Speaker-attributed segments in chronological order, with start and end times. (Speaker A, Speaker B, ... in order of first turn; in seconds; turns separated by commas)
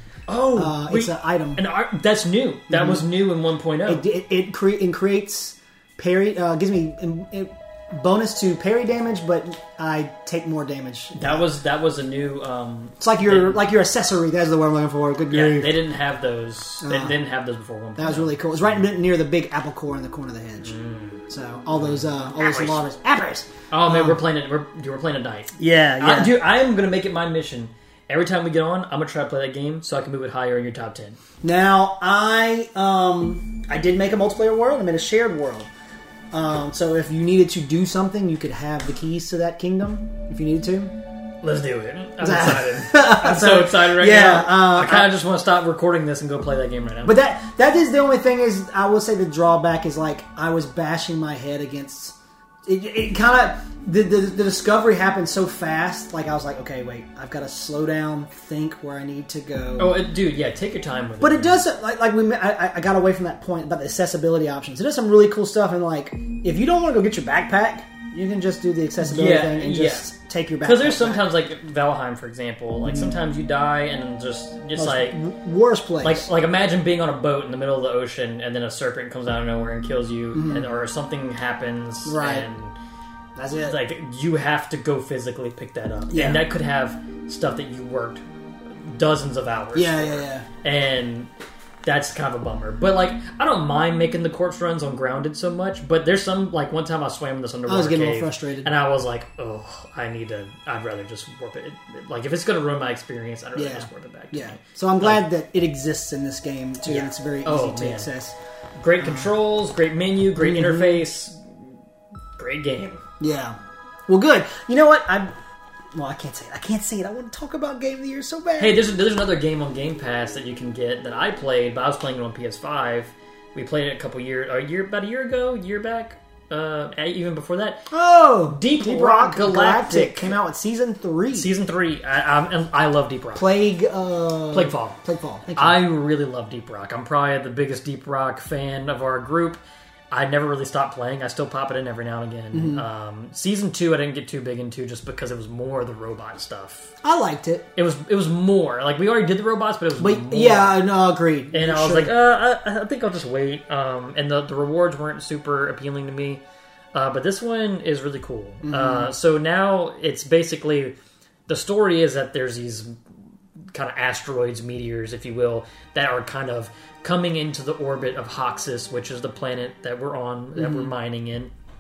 Speaker A: 0.3-4.0, Speaker B: 0.5-1.6, Speaker B: 2.7-3.0, Speaker B: 3.9-11.4, Speaker A: 11.1-13.6, Speaker B: 13.0-15.8, Speaker A: 15.3-18.3, Speaker B: 16.8-17.2, Speaker B: 18.0-20.8, Speaker A: 20.6-21.2, Speaker B: 21.3-24.2, Speaker A: 21.8-22.8, Speaker A: 23.7-31.2, Speaker B: 25.6-26.4, Speaker B: 31.4-35.7, Speaker B: 36.3-40.9, Speaker A: 41.4-47.2, Speaker B: 42.2-45.1, Speaker B: 47.0-60.0, Speaker A: 59.8-61.6, Speaker B: 61.2-71.3, Speaker A: 69.0-70.1, Speaker A: 70.6-75.2, Speaker B: 72.8-73.2, Speaker B: 74.8-76.3, Speaker A: 76.0-82.8, Speaker B: 80.3-80.7, Speaker B: 82.0-82.5, Speaker B: 83.4-83.8, Speaker A: 83.6-88.2, Speaker B: 86.1-86.5, Speaker A: 88.8-91.3, Speaker B: 89.7-90.5, Speaker A: 91.8-105.3, Speaker B: 97.7-98.7, Speaker B: 103.6-108.3, Speaker A: 106.9-108.1, Speaker A: 108.8-111.7, Speaker B: 109.0-109.3, Speaker B: 110.4-111.0, Speaker A: 112.4-113.0, Speaker B: 113.2-113.6, Speaker B: 114.1-115.3, Speaker B: 115.9-118.8, Speaker A: 118.6-127.9, Speaker B: 127.9-131.5, Speaker A: 128.5-130.3, Speaker A: 131.3-133.4, Speaker B: 133.3-135.8, Speaker A: 134.5-135.0, Speaker A: 135.6-139.6, Speaker A: 140.1-146.9, Speaker B: 142.5-142.8, Speaker B: 147.0-147.7, Speaker A: 147.8-150.8, Speaker B: 150.0-152.1, Speaker A: 151.5-156.4, Speaker A: 156.9-160.9, Speaker B: 158.6-159.1, Speaker A: 161.5-162.9, Speaker A: 163.7-171.5, Speaker B: 170.6-170.9